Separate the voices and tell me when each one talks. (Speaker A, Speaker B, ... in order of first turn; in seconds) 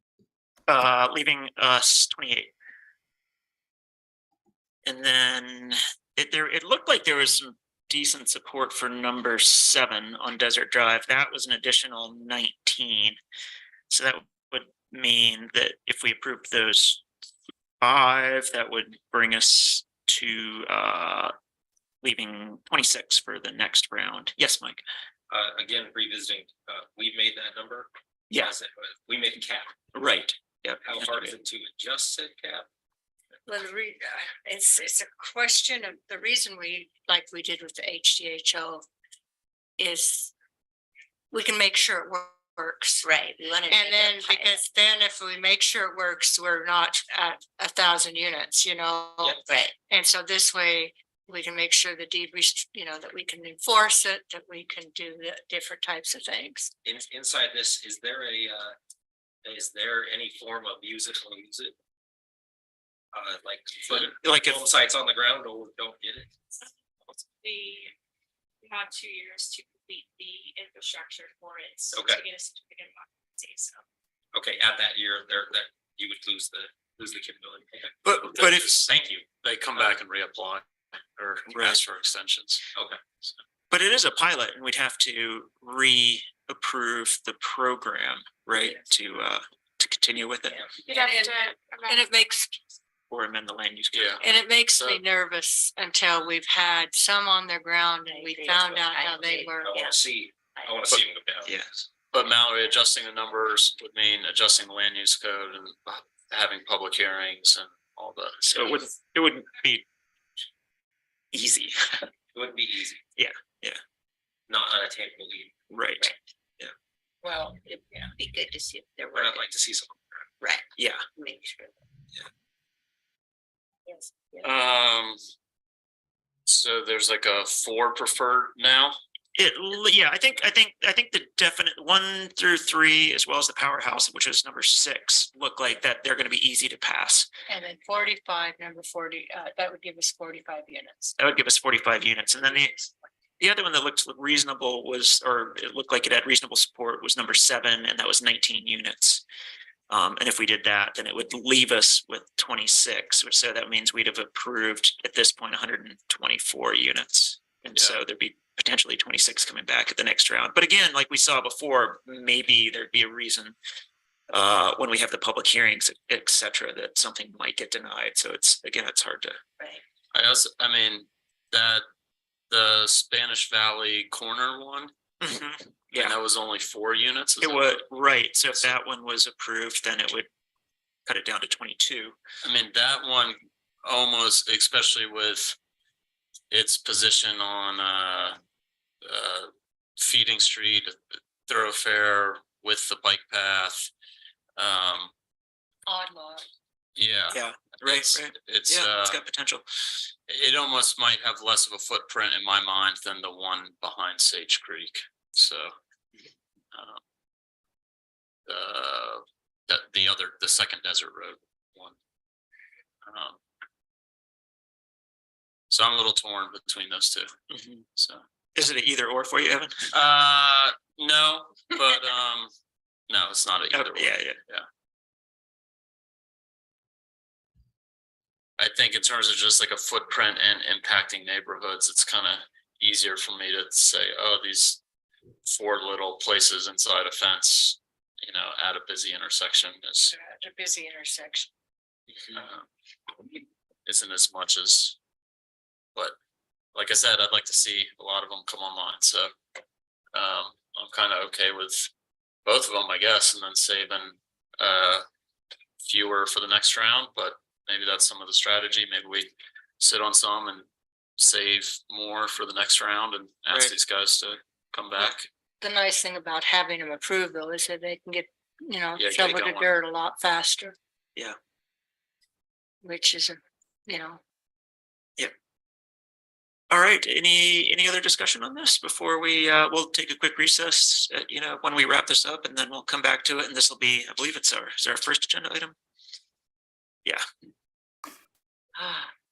Speaker A: 0.7-2.5, 4.8-13.2, 13.9-17.0, 17.8-21.3, 22.0-24.8, 29.9-31.3, 64.0-64.6, 78.0-78.7, 81.5-81.8, 83.7-90.6, 93.1-94.2, 108.5-109.8, 111.3-112.1, 113.2-113.8, 115.7-116.1, 120.8-121.0, 129.3-137.3, 141.2-142.7, 143.4-149.2, 149.9-163.6, 164.3-169.4, 175.2-176.2, 177.4-180.3, 181.1-182.1, 197.3-199.6, 217.5-217.8, 218.6-219.9, 223.7-224.4, 276.7-285.7
Speaker B: 25.3-29.7, 30.8-32.6, 56.8-58.7, 59.4-61.7, 63.1-66.3, 71.9-72.2, 74.3-79.3, 99.6-101.5, 112.3-113.0, 114.5-115.5, 119.1-120.3
Speaker C: 33.5-38.8, 39.8-40.3, 41.3-43.1, 43.7-56.7, 90.9-91.3, 91.8-92.5, 94.2-99.8, 117.2-117.6, 137.5-141.2, 142.4-142.9, 195.9-196.4, 240.1-241.5, 265.6-270.7, 272.8-274.2, 288.8-289.1
Speaker D: 43.0-44.6, 49.5-49.7, 98.0-100.0, 117.6-119.4, 120.4-121.8, 123.9-124.5
Speaker E: 67.4-67.9, 68.6-73.8, 90.8-92.2
Speaker F: 78.3-78.9, 79.4-80.6, 81.2-82.7, 93.9-95.0, 102.1-108.7, 124.4-125.2, 126.5-129.0, 170.1-171.8, 172.5-174.9, 175.9-177.8, 182.4-185.6, 186.5-188.4, 189.0-193.9, 194.6-195.1, 196.9-199.2, 200.3-205.7, 206.7-207.0, 208.5-211.9, 213.1-213.4, 215.7-217.3, 218.0-218.2, 219.9-222.5, 223.1-224.6, 228.6-234.8, 235.4-240.1, 242.3-242.6, 243.8-245.0, 246.7-249.3, 250.1-251.9, 252.4-255.0, 255.8-260.6, 261.2-265.3, 268.9-269.7